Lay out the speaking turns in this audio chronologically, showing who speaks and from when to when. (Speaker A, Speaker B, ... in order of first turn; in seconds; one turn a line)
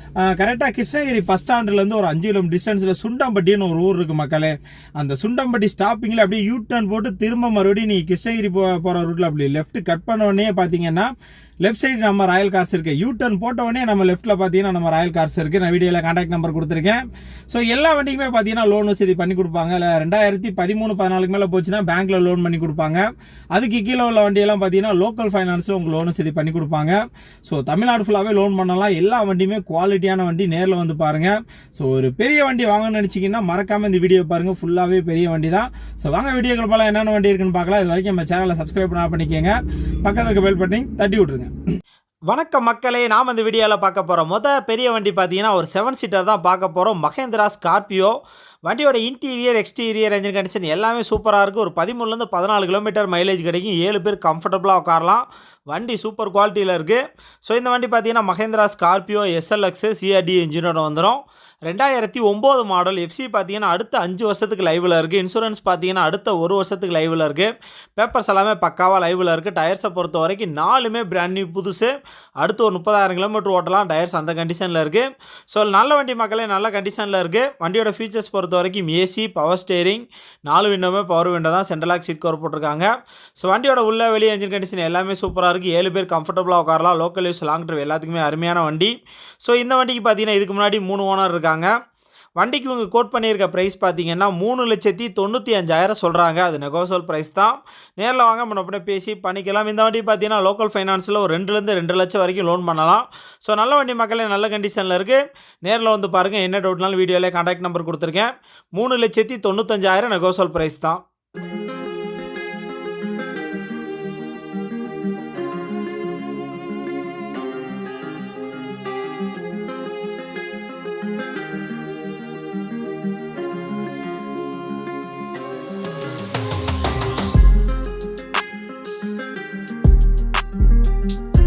Speaker A: 0.2-41.5
Speaker A: 42.3-91.7
Speaker A: 92.4-111.0